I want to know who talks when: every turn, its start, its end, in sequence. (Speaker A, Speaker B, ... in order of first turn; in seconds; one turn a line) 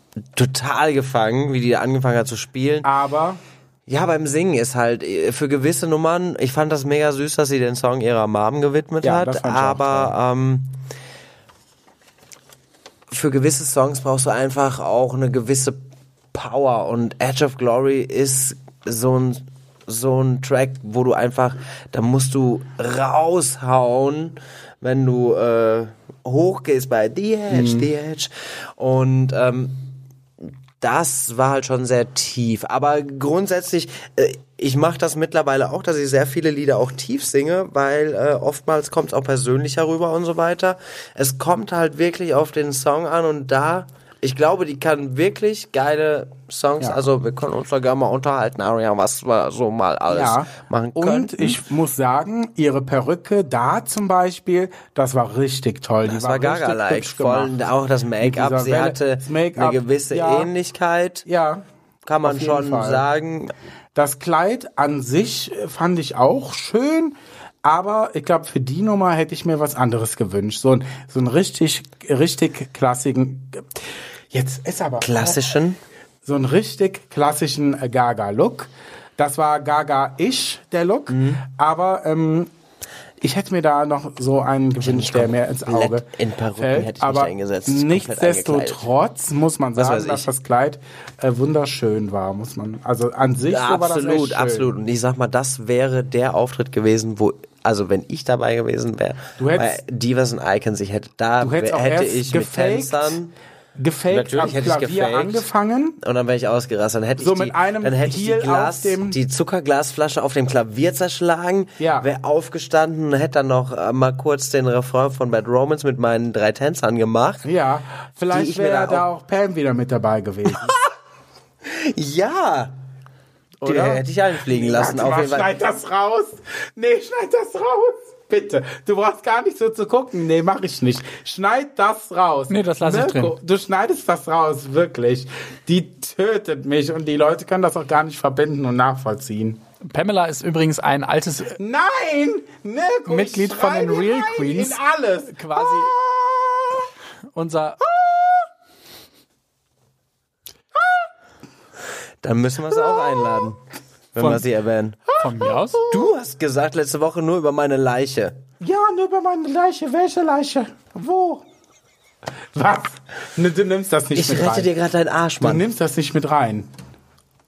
Speaker A: 0.3-2.9
Speaker B: 2.8-3.4
Speaker A: 3.9-10.8
Speaker B: 9.0-10.1
Speaker A: 13.1-15.8
Speaker A: 16.3-29.9
Speaker B: 27.5-27.9
Speaker A: 30.8-51.6
Speaker B: 50.1-57.5
Speaker A: 56.0-61.2
Speaker B: 58.2-60.5
Speaker B: 61.2-61.6
Speaker A: 62.0-63.5
Speaker B: 62.2-63.0
Speaker B: 63.9-73.8
Speaker B: 74.3-75.4
Speaker A: 75.0-75.8
Speaker B: 76.2-82.5
Speaker A: 81.1-81.4
Speaker B: 83.2-94.7
Speaker A: 84.8-88.8
Speaker A: 89.8-90.3
Speaker A: 93.5-103.3
Speaker B: 99.4-99.8
Speaker B: 101.4-103.2
Speaker B: 103.8-106.0
Speaker A: 104.1-105.4
Speaker A: 106.0-117.5
Speaker B: 107.2-109.2
Speaker B: 111.8-112.1
Speaker B: 117.4-120.7
Speaker A: 118.3-119.0
Speaker A: 121.6-122.7
Speaker B: 123.6-139.6
Speaker A: 123.6-125.5
Speaker C: 132.5-133.3
Speaker C: 139.9-141.6
Speaker B: 141.6-146.9
Speaker C: 143.1-145.9
Speaker C: 147.3-147.8
Speaker B: 147.8-148.5
Speaker B: 150.7-151.1
Speaker A: 152.2-153.6
Speaker B: 152.7-153.5
Speaker A: 154.1-155.0
Speaker C: 155.2-155.8
Speaker B: 155.2-156.1
Speaker A: 155.9-158.4
Speaker B: 158.6-161.4
Speaker B: 162.5-164.7
Speaker A: 164.1-165.6
Speaker B: 165.4-166.7